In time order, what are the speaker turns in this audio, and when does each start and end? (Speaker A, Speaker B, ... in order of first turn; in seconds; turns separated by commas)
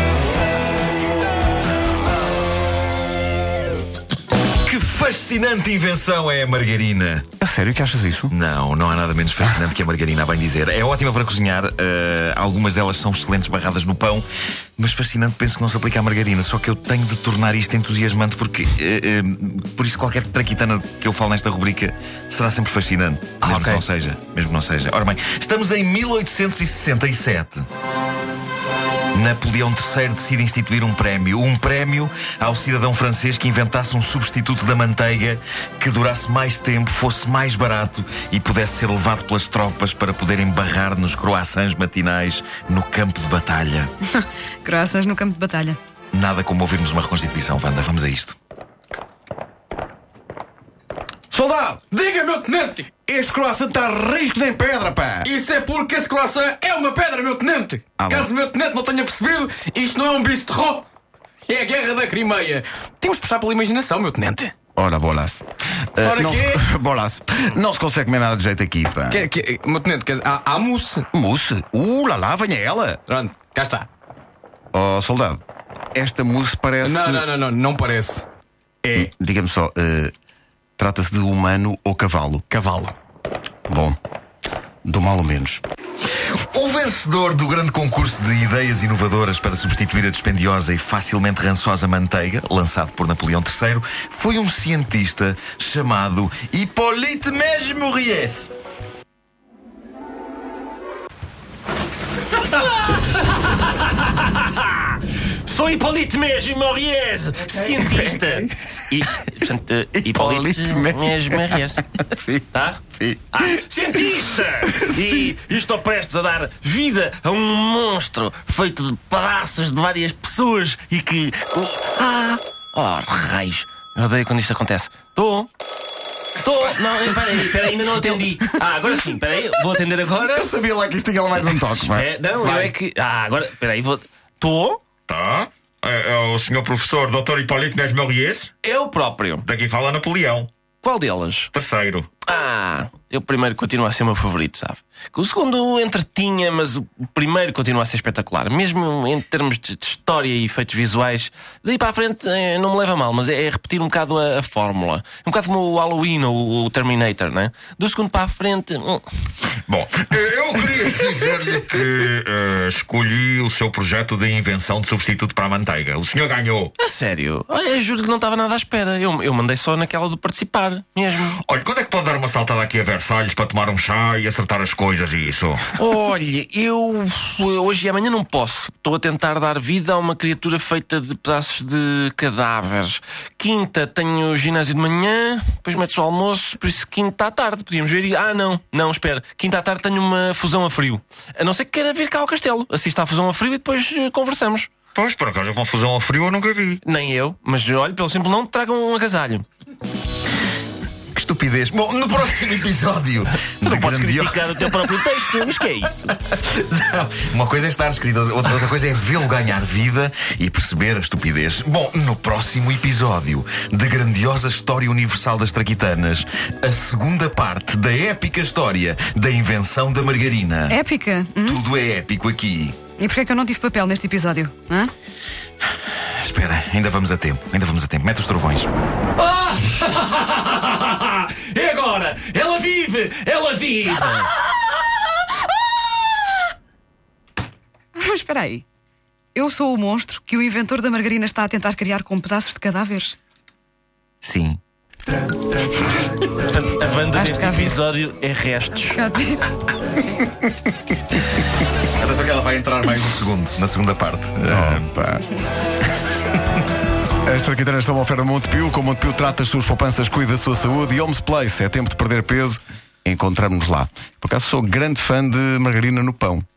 Speaker A: 4.6-7.3, Speaker B: 7.4-8.3, Speaker A: 8.3-14.2, Speaker A: 14.8-27.7, Speaker C: 23.4-23.8, Speaker A: 29.1-43.9, Speaker D: 44.1-45.8, Speaker A: 46.1-48.4, Speaker B: 51.3-51.8, Speaker E: 51.9-52.9, Speaker B: 53.1-55.3, Speaker E: 55.2-60.8, Speaker B: 58.0-58.3, Speaker E: 61.5-64.5, Speaker B: 64.8-69.2, Speaker E: 66.0-66.6, Speaker E: 69.1-71.1, Speaker B: 71.1-73.0, Speaker E: 73.1-73.9, Speaker B: 74.7-75.4, Speaker B: 75.9-77.2, Speaker E: 76.8-78.2, Speaker E: 78.8-79.1, Speaker B: 78.9-80.1, Speaker B: 80.8-82.4, Speaker E: 82.5-82.9, Speaker B: 83.7-84.0, Speaker B: 84.8-85.6, Speaker A: 86.3-98.5, Speaker C: 102.3-111.8, Speaker B: 110.0-113.6, Speaker C: 112.5-112.8, Speaker C: 113.3-125.5, Speaker B: 114.7-115.2, Speaker C: 126.4-130.5, Speaker B: 130.2-132.1, Speaker C: 131.4-134.8, Speaker E: 132.4-132.7, Speaker A: 135.1-138.5, Speaker C: 138.6-139.4, Speaker A: 139.4-140.5, Speaker C: 140.8-141.5, Speaker A: 141.5-142.1, Speaker C: 142.3-159.0, Speaker A: 159.7-166.7, Speaker C: 166.8-171.4, Speaker A: 171.4-175.7, Speaker C: 175.8-194.7, Speaker A: 194.9-196.8, Speaker C: 196.8-199.4, Speaker A: 201.1-220.8, Speaker C: 203.4-206.1, Speaker D: 220.7-221.6, Speaker A: 221.4-222.8, Speaker D: 223.0-224.9, Speaker A: 226.1-228.7, Speaker C: 229.2-234.3, Speaker D: 237.9-238.6, Speaker D: 239.3-243.2, Speaker A: 244.2-244.6, Speaker C: 246.3-249.0, Speaker D: 247.1-247.8, Speaker D: 248.9-250.3, Speaker A: 252.0-254.9, Speaker B: 254.5-255.3, Speaker B: 257.2-266.4